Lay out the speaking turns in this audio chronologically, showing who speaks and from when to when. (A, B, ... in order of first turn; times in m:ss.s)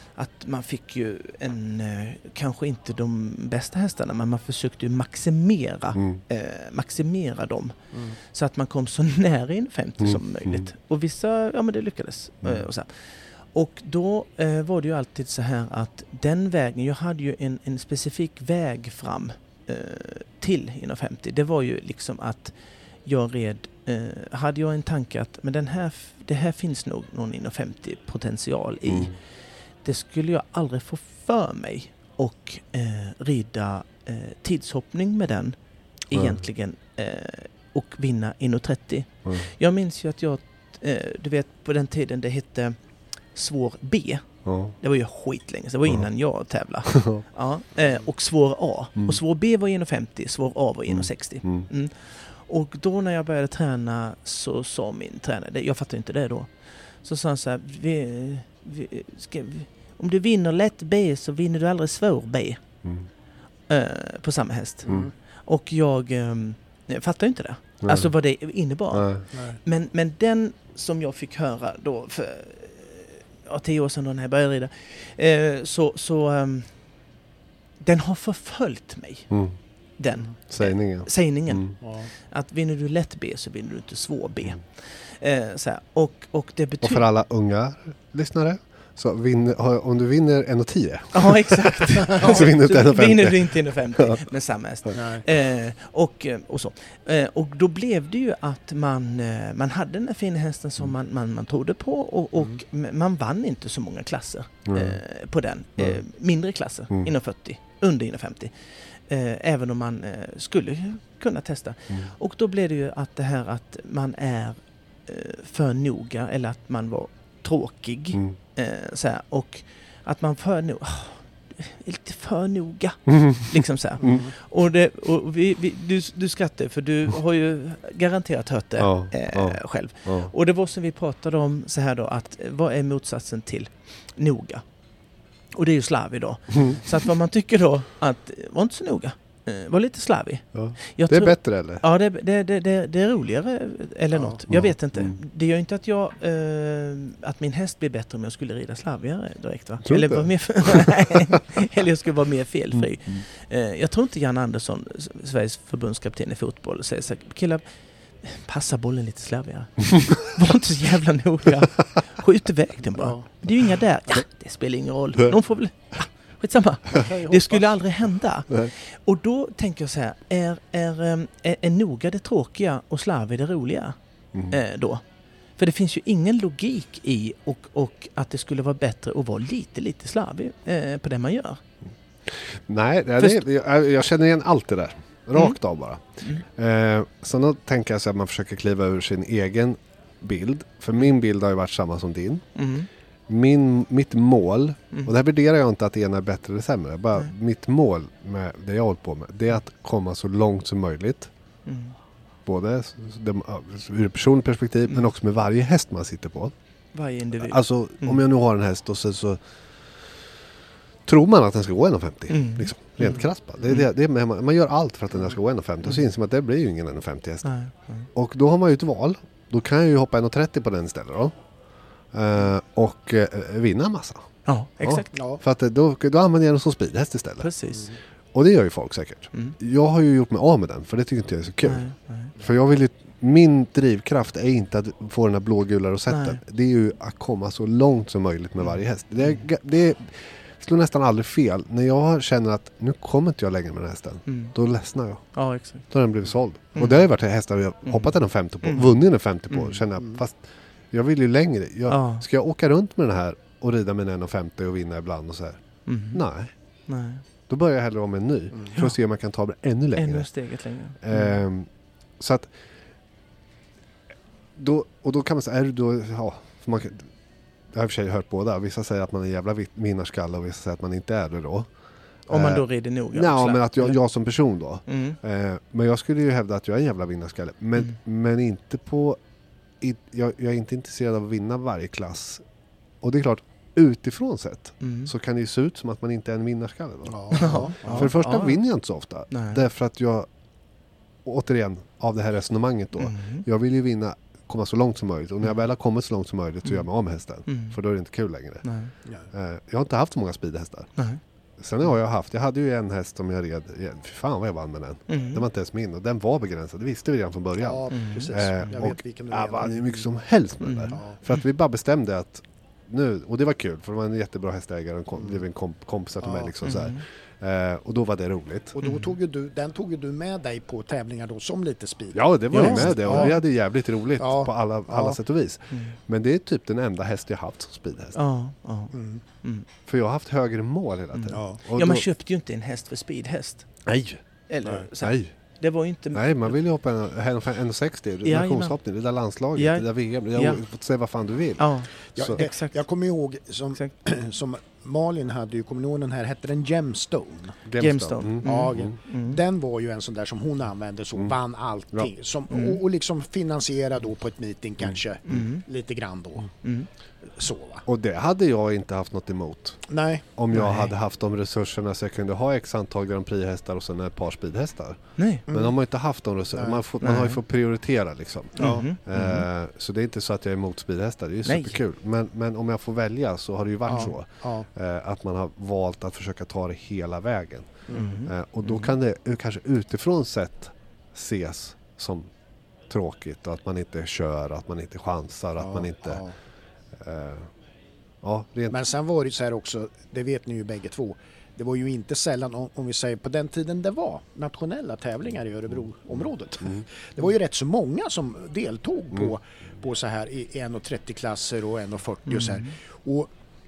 0:00.2-0:29.2 A
0:06.0-0:06.2 B
0:10.0-0:10.7 B
0:28.9-0:29.1 B
0:29.8-0:35.6 A
0:36.1-0:42.8 A
0:43.3-0:44.2 A
0:44.4-0:44.8 B
0:44.8-0:56.5 A
0:46.9-0:47.2 B
0:50.9-0:51.6 B
0:57.0-1:02.6 A
1:03.7-1:04.9 A
1:04.9-1:05.1 C
1:05.4-1:16.7 A
1:07.8-1:08.1 B
1:08.9-1:09.2 B
1:17.8-1:19.3 A
1:19.3-1:19.6 B
1:20.0-1:27.0 A
1:20.5-1:21.7 B
1:21.8-1:22.1 C
1:26.8-1:34.2 B
1:31.1-1:48.5 A
1:34.9-1:35.2 C
1:44.7-1:45.0 B
1:49.1-2:14.6 A
2:03.1-2:04.2 B
2:04.0-2:04.3 C
2:08.8-2:10.3 B
2:15.5-2:37.6 A
2:20.5-2:21.8 B
2:24.5-2:25.1 B
2:29.8-2:31.1 B
2:38.2-2:54.0 A
2:43.0-2:43.3 C
2:46.9-2:47.7 C
2:54.5-2:55.0 A
2:55.6-3:01.6 A
3:02.3-3:12.4 B
3:12.5-3:12.9 A
3:13.3-3:21.3 B
3:21.6-3:22.0 A
3:22.4-3:26.5 B
3:26.9-3:28.2 A
3:27.4-3:29.4 B
3:31.0-3:37.5 B
3:32.3-3:33.1 A
3:37.4-3:38.1 A
3:38.1-3:41.3 B
3:42.1-3:44.3 B
3:44.4-3:45.1 A
3:44.8-3:47.5 B
3:45.1-3:45.4 C
3:47.4-3:47.9 A
3:48.3-3:51.8 B
3:51.6-3:52.3 A
3:52.4-4:05.3 B
3:56.1-3:56.4 A
4:04.3-4:04.5 A
4:05.3-4:05.8 A
4:05.9-4:15.6 B
4:06.7-4:07.0 A
4:08.6-4:08.9 A
4:09.5-4:09.8 A
4:11.9-4:12.2 A
4:15.8-4:16.2 A
4:16.1-4:16.5 B
4:16.9-4:17.2 A
4:17.5-4:20.3 B
4:20.0-4:21.4 A
4:21.0-4:21.7 B
4:22.2-4:22.5 B
4:24.6-4:27.1 B
4:27.7-4:31.7 B
4:32.3-4:39.2 B
4:32.3-4:34.0 A
4:34.9-4:35.2 A
4:39.8-4:42.4 B
4:43.0-4:50.3 B
4:44.8-4:45.1 A
4:47.1-4:48.1 C
4:47.3-4:48.6 A
4:49.3-4:49.6 A
4:51.2-4:58.6 B
4:53.0-4:53.4 A
4:57.5-4:57.7 A
4:58.6-4:58.9 A
4:59.3-5:00.9 B
5:01.6-5:18.8 B
5:05.1-5:05.4 A
5:07.6-5:10.0 C
5:07.9-5:08.3 A
5:10.6-5:11.4 A
5:16.2-5:16.5 C
5:16.6-5:17.0 A
5:18.8-5:23.4 C
5:18.8-5:19.1 A
5:22.1-5:28.2 B
5:22.5-5:23.4 A
5:24.2-5:25.2 C
5:28.1-5:29.6 A
5:28.9-5:29.2 C
5:29.8-5:32.0 B
5:31.1-5:33.7 A
5:31.3-5:31.6 C
5:33.8-5:34.2 B
5:34.5-5:36.5 A
5:35.0-5:35.3 B
5:36.1-5:42.4 B
5:38.2-5:38.8 A
5:39.5-5:40.6 A
5:41.6-5:42.8 A
5:42.2-5:47.6 C
5:47.6-5:48.9 B
5:47.8-5:49.4 A
5:48.4-5:56.5 C
5:52.5-5:52.8 A
5:55.3-5:55.6 A
5:57.4-5:57.8 C
5:57.8-6:22.3 B
5:59.9-6:00.2 C
6:00.5-6:00.9 A
6:05.2-6:05.4 A
6:05.5-6:05.7 C
6:06.5-6:06.8 C
6:07.0-6:07.4 A
6:08.6-6:08.8 C
6:08.6-6:09.4 A
6:11.4-6:11.8 A
6:13.9-6:14.6 C
6:17.9-6:18.1 C
6:17.9-6:18.3 A
6:22.9-6:26.2 B
6:25.6-6:26.3 C
6:27.0-6:27.5 B
6:28.2-6:28.8 B
6:28.7-6:43.3 C
6:42.3-6:42.7 A